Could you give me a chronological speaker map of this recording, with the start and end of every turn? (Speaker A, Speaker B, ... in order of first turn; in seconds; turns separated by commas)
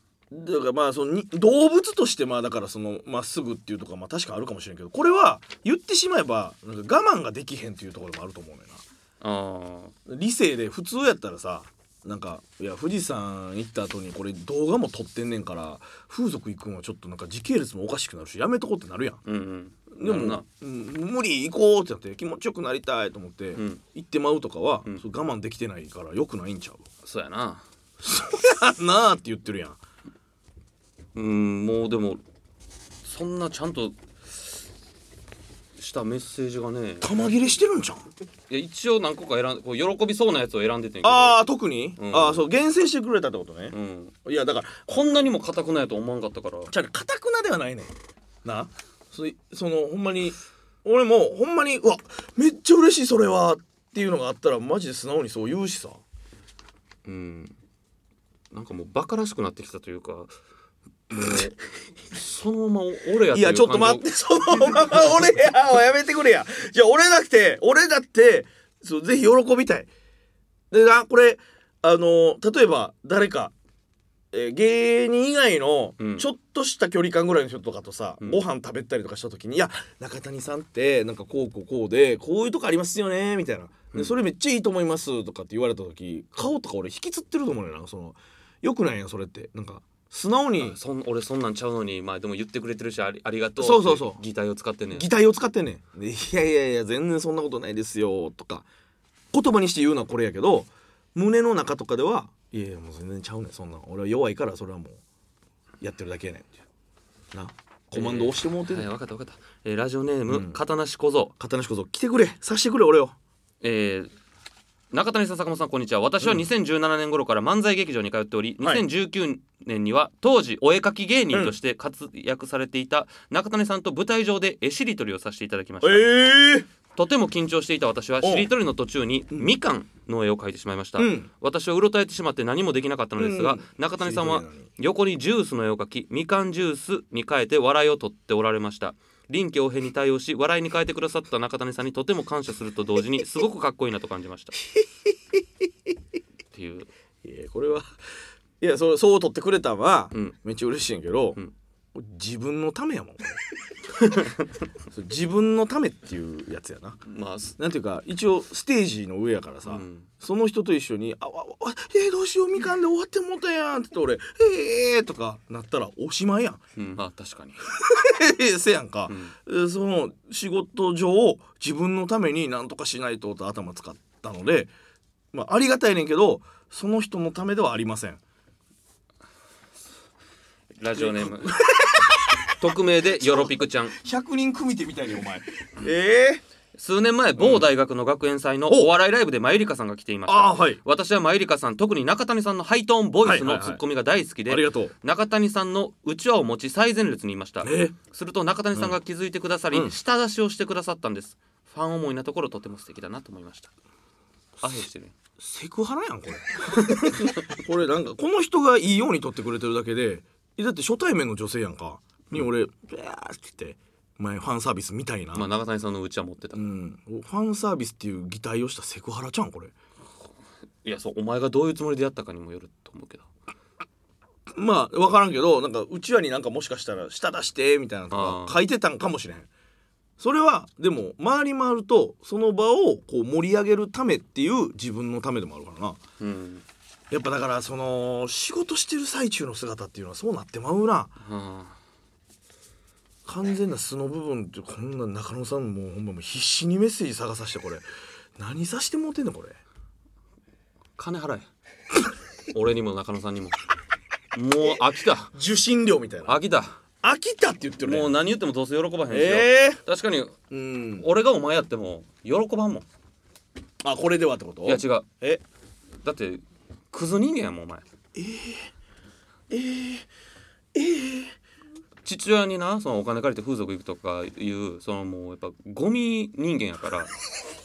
Speaker A: 0.3-8.8, Speaker B: 9.2-9.9, Speaker A: 10.1-19.2, Speaker B: 19.2-20.4, Speaker A: 19.9-26.9, Speaker B: 23.5-23.8, Speaker B: 27.0-27.6, Speaker A: 28.0-29.8, Speaker B: 31.1-32.2, Speaker B: 33.0-34.6, Speaker B: 35.8-37.1, Speaker A: 37.0-38.1, Speaker B: 38.5-41.4, Speaker A: 41.0-44.9, Speaker B: 42.0-42.5, Speaker B: 43.7-44.1, Speaker B: 44.9-46.7, Speaker A: 46.7-56.0, Speaker B: 57.0-57.5, Speaker B: 58.5-60.3, Speaker B: 61.1-61.5, Speaker B: 62.1-64.0, Speaker A: 63.3-69.9, Speaker A: 70.7-73.5, Speaker A: 74.3-90.8, Speaker B: 76.0-76.2, Speaker B: 90.6-95.1, Speaker A: 93.6-94.2, Speaker A: 94.9-98.7, Speaker A: 99.3-105.0, Speaker A: 105.8-106.5, Speaker A: 107.3-108.9, Speaker B: 107.9-111.3, Speaker A: 110.3-110.6, Speaker A: 111.4-113.1, Speaker B: 113.6-114.1, Speaker B: 114.9-126.2, Speaker A: 125.8-126.7, Speaker B: 126.9-144.6, Speaker A: 128.2-128.5, Speaker A: 131.0-131.3, Speaker A: 133.2-134.7, Speaker B: 146.5-146.9, Speaker A: 147.2-147.9, Speaker A: 148.6-151.4, Speaker A: 151.9-153.4, Speaker B: 154.0-154.4, Speaker A: 154.9-157.0, Speaker B: 157.1-157.6, Speaker A: 157.6-166.6, Speaker B: 159.7-160.1, Speaker B: 166.8-167.6, Speaker A: 167.8-174.7, Speaker B: 169.1-169.3, Speaker A: 175.3-178.2, Speaker B: 180.8-181.6, Speaker A: 181.0-182.5, Speaker B: 182.6-183.9, Speaker A: 183.2-186.4, Speaker B: 186.7-203.7, Speaker A: 187.4-187.7, Speaker A: 190.3-190.8, Speaker A: 193.2-193.8, Speaker A: 194.5-194.9, Speaker A: 197.6-198.0, Speaker B: 204.6-205.1, Speaker A: 205.4-215.5, Speaker B: 206.7-207.3, Speaker B: 215.3-216.7, Speaker A: 216.5-219.7, Speaker B: 220.8-223.3, Speaker A: 224.5-229.5, Speaker B: 228.1-228.6, Speaker A: 230.2-236.0, Speaker B: 236.2-236.6, Speaker A: 237.1-241.1, Speaker B: 241.2-241.8, Speaker A: 243.2-247.8, Speaker A: 248.4-249.6, Speaker B: 251.0-251.5, Speaker B: 252.5-253.6, Speaker B: 254.3-255.3, Speaker A: 255.3-256.4, Speaker B: 256.2-256.8, Speaker A: 257.0-258.1, Speaker B: 257.8-260.4, Speaker A: 259.1-259.8, Speaker A: 260.5-261.1, Speaker B: 261.0-262.8, Speaker A: 263.8-265.4, Speaker B: 264.6-265.1, Speaker B: 266.0-267.8, Speaker A: 268.1-268.7, Speaker A: 269.5-270.1, Speaker A: 270.7-271.3, Speaker B: 272.0-277.1